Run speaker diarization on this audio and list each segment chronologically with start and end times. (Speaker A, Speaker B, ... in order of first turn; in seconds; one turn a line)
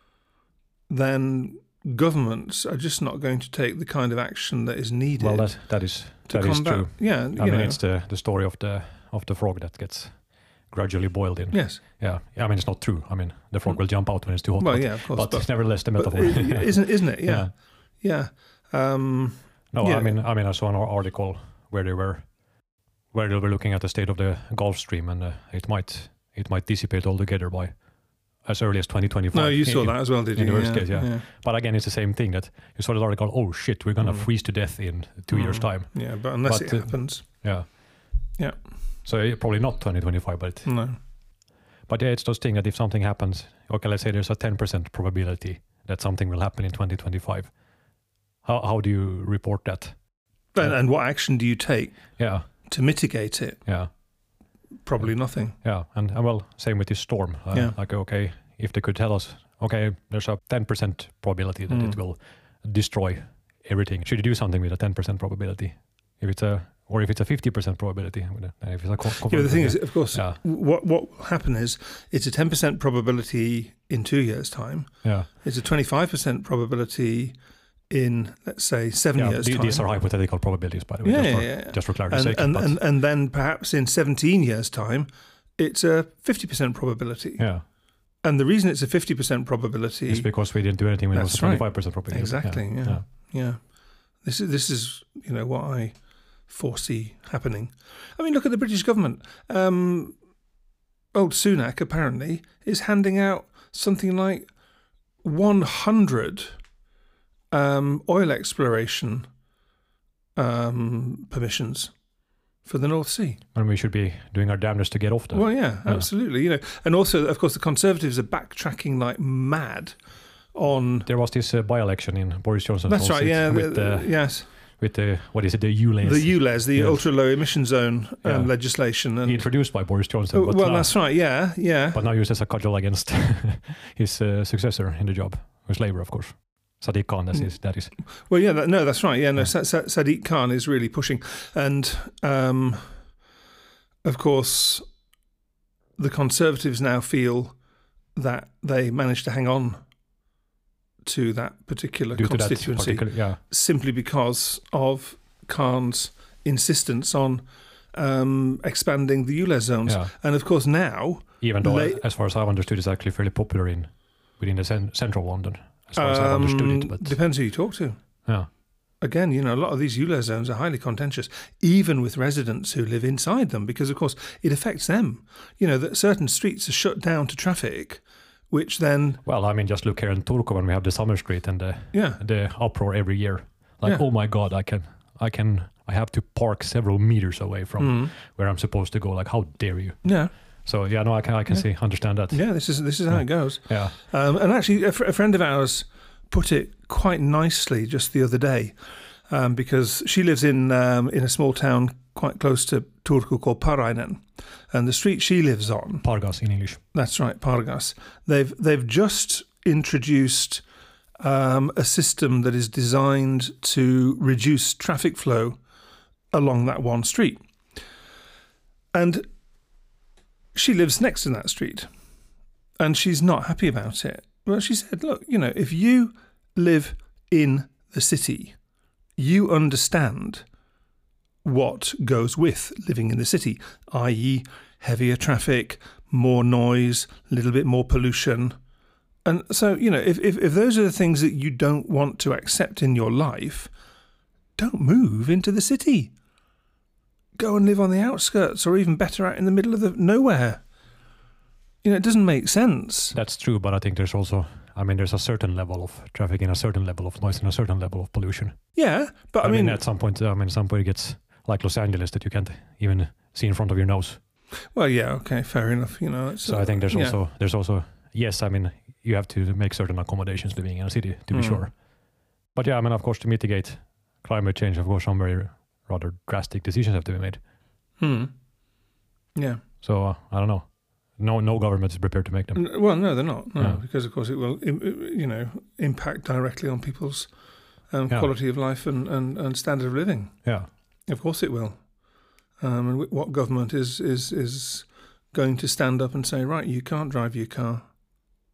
Speaker A: 0.9-7.8
Speaker B: 5.2-17.5
Speaker A: 11.5-11.8
Speaker A: 14.6-20.2
Speaker B: 19.7-22.3
Speaker B: 23.1-27.7
Speaker B: 28.4-37.8
Speaker A: 29.3-31.2
Speaker A: 34.0-34.3
Speaker A: 35.3-37.7
Speaker B: 39.0-40.7
Speaker A: 40.6-41.0
Speaker B: 41.9-47.5
Speaker B: 48.4-50.0
Speaker A: 50.5-53.6
Speaker B: 52.2-52.5
Speaker B: 53.7-53.9
Speaker A: 54.9-55.6
Speaker B: 55.0-70.4
Speaker A: 61.7-62.0
Speaker A: 69.2-77.4
Speaker B: 75.0-75.3
Speaker A: 77.9-79.9
Speaker B: 79.2-82.8
Speaker A: 81.0-87.5
Speaker B: 87.4-87.6
Speaker A: 88.2-90.3
Speaker B: 90.1-93.1
Speaker A: 91.1-93.6
Speaker A: 94.2-96.0
Speaker A: 96.5-100.2
Speaker A: 101.1-104.5
Speaker A: 105.2-106.5
Speaker A: 107.5-109.3
Speaker A: 110.4-111.9
Speaker A: 112.7-113.4
Speaker B: 113.5-116.1
Speaker A: 115.3-120.0
Speaker A: 120.5-121.1
Speaker B: 121.1-127.2
Speaker A: 122.9-124.5
Speaker A: 126.0-129.5
Speaker B: 128.2-131.2
Speaker A: 130.3-132.0
Speaker B: 131.9-138.0
Speaker A: 138.2-143.0
Speaker A: 144.0-144.8
Speaker A: 146.0-147.6
Speaker A: 148.2-149.8
Speaker A: 151.1-162.0
Speaker B: 152.1-153.4
Speaker B: 159.9-160.1
Speaker B: 161.4-167.2
Speaker A: 166.0-168.0
Speaker A: 169.0-179.2
Speaker B: 179.2-194.0
Speaker A: 181.9-182.2
Speaker A: 187.8-188.1
Speaker A: 190.0-190.3
Speaker A: 192.2-198.8
Speaker A: 199.3-206.1
Speaker B: 206.0-206.8
Speaker A: 206.9-210.6
Speaker A: 211.2-215.6
Speaker A: 216.3-217.4
Speaker A: 218.9-219.3
Speaker A: 220.6-221.9
Speaker A: 222.8-228.6
Speaker A: 229.2-230.4
Speaker A: 231.4-238.6
Speaker A: 239.2-243.7
Speaker A: 244.6-246.1
Speaker A: 247.4-250.6
Speaker A: 251.8-253.2
Speaker B: 253.1-258.6
Speaker A: 258.7-259.8
Speaker B: 259.4-264.2
Speaker A: 264.7-267.2
Speaker B: 266.4-271.7
Speaker A: 271.3-271.6
Speaker B: 272.6-277.4
Speaker A: 278.0-278.3
Speaker A: 279.4-279.6
Speaker B: 279.8-283.0
Speaker A: 282.6-287.3
Speaker B: 283.6-283.8
Speaker A: 287.9-290.4
Speaker A: 291.1-291.8
Speaker A: 292.6-297.8